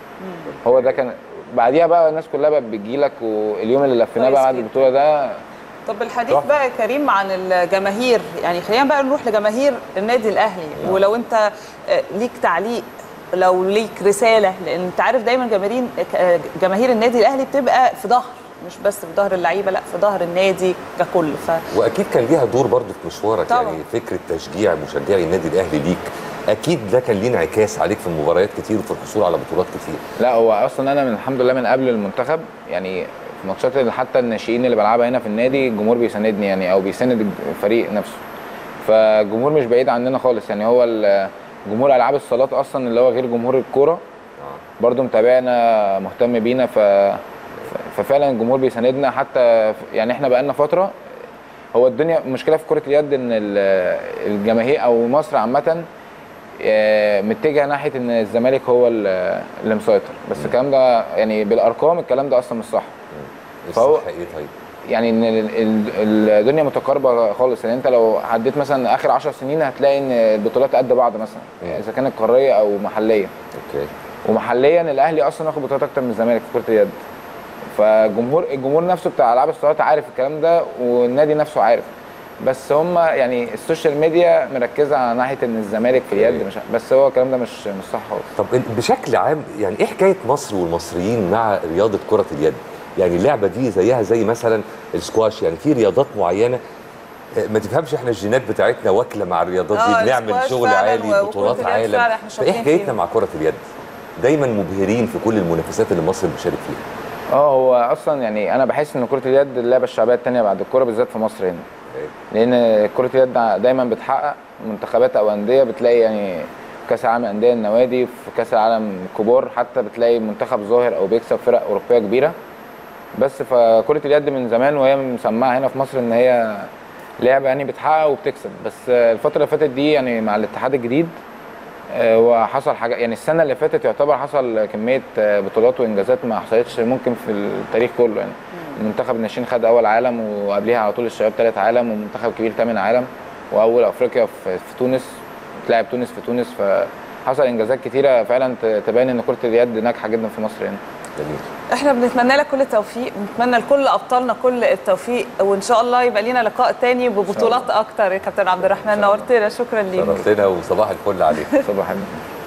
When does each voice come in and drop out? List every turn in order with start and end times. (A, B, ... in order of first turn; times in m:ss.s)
0:00.2-0:00.5 A
0:00.5-0:01.0 B
0:00.6-0:05.4 C
0:04.2-0:04.9 A
0:05.9-0:21.6 A
0:10.8-0:11.1 B
0:21.7-0:30.0 B
0:23.5-0:23.8 A
0:30.2-0:38.2 C
0:38.8-0:44.0 C
0:44.8-0:51.0 C
0:51.7-0:55.9 C
0:56.6-1:02.9 C
1:03.1-1:04.5 B
1:03.8-1:04.1 C
1:04.9-1:13.3 C
1:13.6-1:13.9 B
1:14.2-1:17.0 C
1:17.7-1:21.9 C
1:22.4-1:28.3 C
1:26.1-1:26.5 B
1:28.4-1:36.6 B
1:37.4-1:43.6 B
1:39.7-1:43.0 A
1:44.2-1:46.8 B
1:47.3-1:51.7 C
1:52.3-2:02.3 C
2:03.2-2:11.2 C
2:11.9-2:25.1 C
2:25.7-2:30.8 C
2:31.2-2:31.5 B
2:31.7-2:40.3 A
2:37.3-2:37.7 C
2:38.9-2:39.2 C
2:39.9-2:41.5 B
2:41.3-2:41.7 A
2:41.6-2:42.2 C